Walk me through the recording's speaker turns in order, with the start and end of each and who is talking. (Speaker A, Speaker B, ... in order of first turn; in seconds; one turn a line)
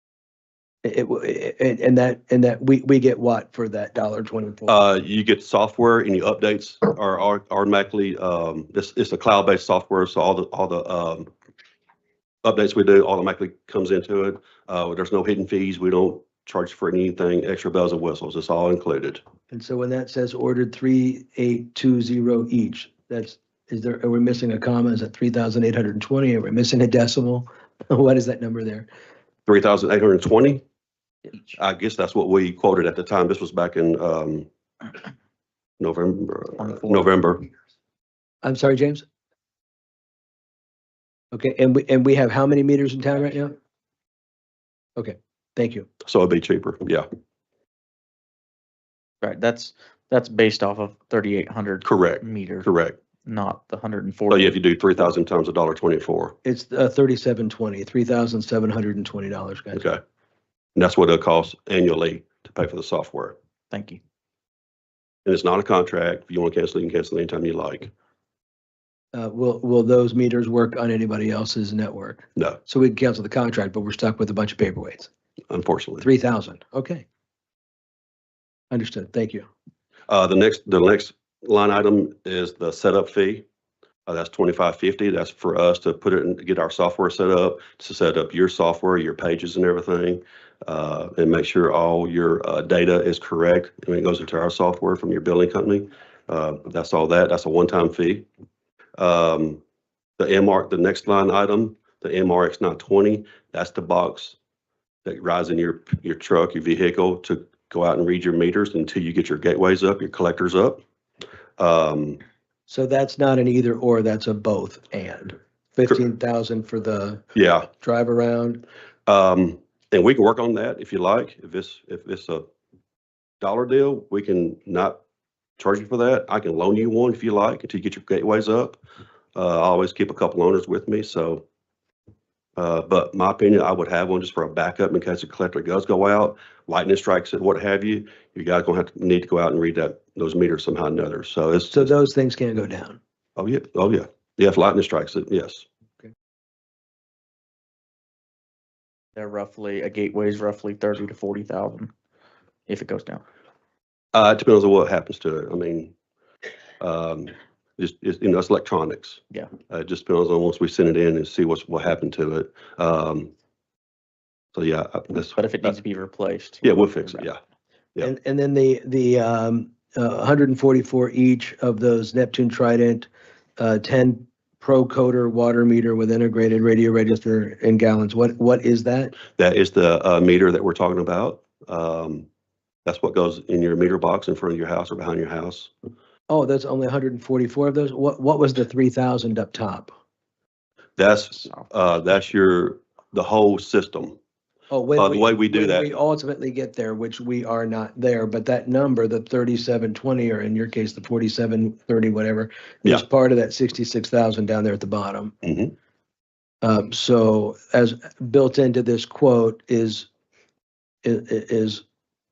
Speaker A: 0.8-4.8
Speaker B: 4.7-11.3
Speaker B: 12.4-19.2
Speaker A: 19.5-28.9
Speaker B: 29.5-30.6
Speaker B: 31.5-34.5
Speaker B: 35.8-37.5
Speaker C: 36.6-37.0
Speaker A: 38.4-39.0
Speaker A: 41.3-43.5
Speaker A: 45.0-45.9
Speaker B: 46.0-47.0
Speaker C: 49.2-52.7
Speaker B: 51.8-53.0
Speaker C: 53.2-54.6
Speaker B: 54.3-56.4
Speaker A: 56.4-59.8
Speaker B: 59.7-60.0
Speaker B: 60.8-63.4
Speaker C: 63.7-64.0
Speaker B: 65.2-67.9
Speaker A: 69.1-75.1
Speaker B: 75.5-76.0
Speaker A: 76.0-77.0
Speaker A: 78.7-79.5
Speaker B: 80.1-83.4
Speaker B: 84.0-98.2
Speaker B: 99.0-99.6
Speaker B: 100.2-104.4
Speaker B: 105.0-110.8
Speaker B: 111.6-112.2
Speaker A: 112.7-118.6
Speaker B: 117.3-117.7
Speaker B: 119.1-122.4
Speaker B: 123.4-125.0
Speaker B: 125.6-128.8
Speaker B: 129.3-131.4
Speaker B: 132.6-141.9
Speaker A: 141.7-143.0
Speaker B: 143.4-145.7
Speaker C: 149.2-151.9
Speaker C: 152.7-153.2
Speaker B: 154.1-155.9
Speaker B: 156.8-163.3
Speaker B: 164.5-165.7
Speaker C: 165.3-167.3
Speaker B: 166.6-167.4
Speaker A: 168.0-179.1
Speaker B: 179.4-182.3
Speaker B: 182.8-185.7
Speaker A: 186.3-189.9
Speaker B: 191.0-194.2
Speaker C: 191.4-191.8
Speaker A: 194.7-205.3
Speaker B: 195.0-196.0
Speaker B: 205.4-205.7
Speaker A: 206.6-210.1
Speaker A: 211.0-211.8